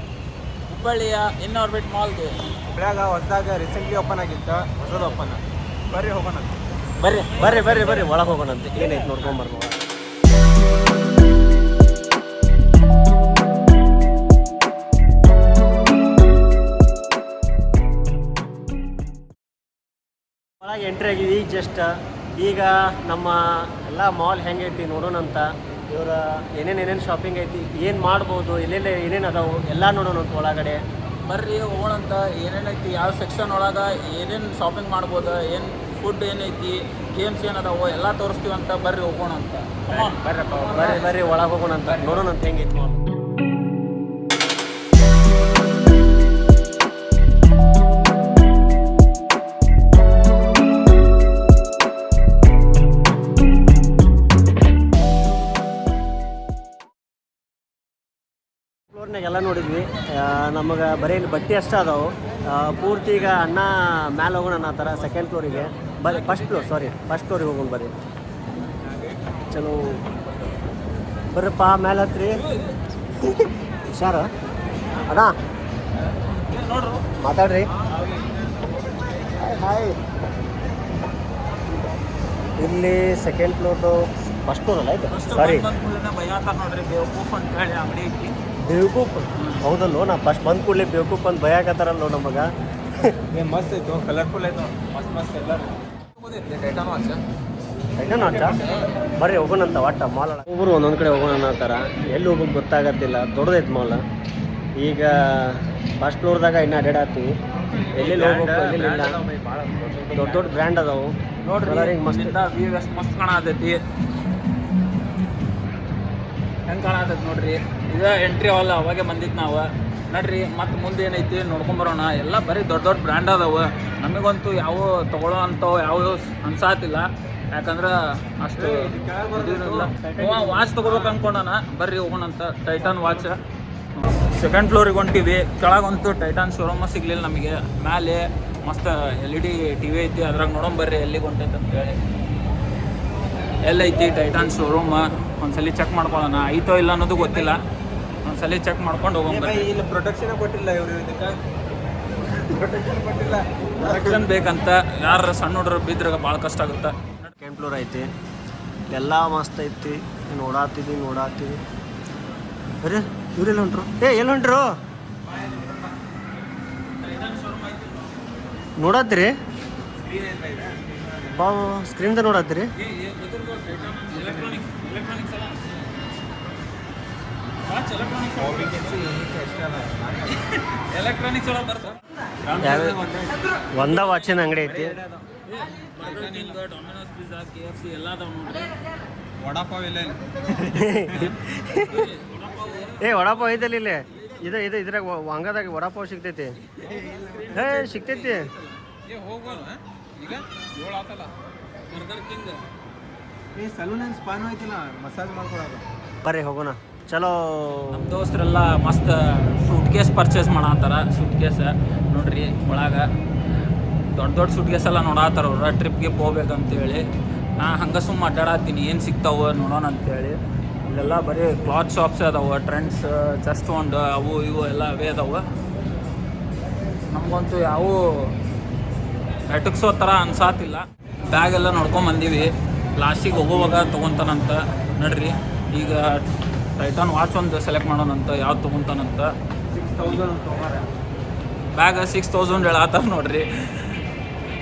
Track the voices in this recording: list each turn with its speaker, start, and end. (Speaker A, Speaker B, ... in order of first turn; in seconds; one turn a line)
Speaker A: 0.7-2.4
Speaker B: 2.7-6.5
Speaker A: 7.0-8.1
Speaker C: 7.3-9.8
Speaker A: 8.6-9.3
Speaker C: 20.6-30.8
Speaker A: 31.3-41.3
Speaker C: 40.7-43.0
Speaker B: 40.7-41.1
Speaker C: 58.9-67.9
Speaker B: 65.1-65.7
Speaker C: 69.5-70.0
Speaker C: 71.3-72.5
Speaker C: 73.2-74.3
Speaker C: 75.1-75.3
Speaker A: 76.2-77.0
Speaker C: 77.2-77.7
Speaker C: 79.4-80.0
Speaker C: 82.6-85.7
Speaker A: 85.1-88.3
Speaker C: 88.7-92.5
Speaker A: 89.4-89.7
Speaker B: 93.3-97.2
Speaker C: 98.0-98.6
Speaker B: 98.1-98.8
Speaker C: 99.2-104.0
Speaker C: 104.8-107.3
Speaker B: 107.7-110.6
Speaker C: 107.9-109.2
Speaker C: 110.1-111.1
Speaker A: 111.5-113.8
Speaker C: 111.6-112.3
Speaker A: 116.7-133.3
Speaker B: 128.6-130.1
Speaker C: 130.0-130.7
Speaker B: 130.7-131.2
Speaker B: 132.8-133.2
Speaker A: 133.9-142.0
Speaker A: 143.7-147.6
Speaker A: 148.2-149.7
Speaker B: 149.3-151.4
Speaker B: 152.3-154.2
Speaker A: 153.8-157.3
Speaker C: 157.4-158.1
Speaker C: 158.9-161.6
Speaker C: 162.8-164.7
Speaker B: 165.2-165.9
Speaker A: 166.9-168.2
Speaker C: 168.8-169.3
Speaker B: 170.0-171.3
Speaker C: 171.3-172.7
Speaker A: 172.8-175.9
Speaker B: 174.1-174.6
Speaker A: 177.6-179.0
Speaker B: 178.4-180.4
Speaker A: 180.8-183.0
Speaker C: 182.6-182.9
Speaker B: 182.6-185.2
Speaker C: 183.7-184.9
Speaker A: 185.5-188.7
Speaker B: 186.0-186.5
Speaker B: 189.4-191.3
Speaker C: 190.7-192.1
Speaker A: 191.7-193.4
Speaker C: 193.0-196.5
Speaker A: 196.7-198.8
Speaker B: 196.8-197.9
Speaker C: 197.5-198.5
Speaker B: 199.1-201.3
Speaker A: 201.9-202.6
Speaker B: 203.6-205.8
Speaker C: 206.2-208.2
Speaker A: 207.9-213.1
Speaker A: 214.2-217.0
Speaker A: 217.6-225.4
Speaker A: 227.1-228.3
Speaker A: 229.5-236.2
Speaker A: 236.8-239.3
Speaker B: 239.7-240.9
Speaker A: 241.7-244.0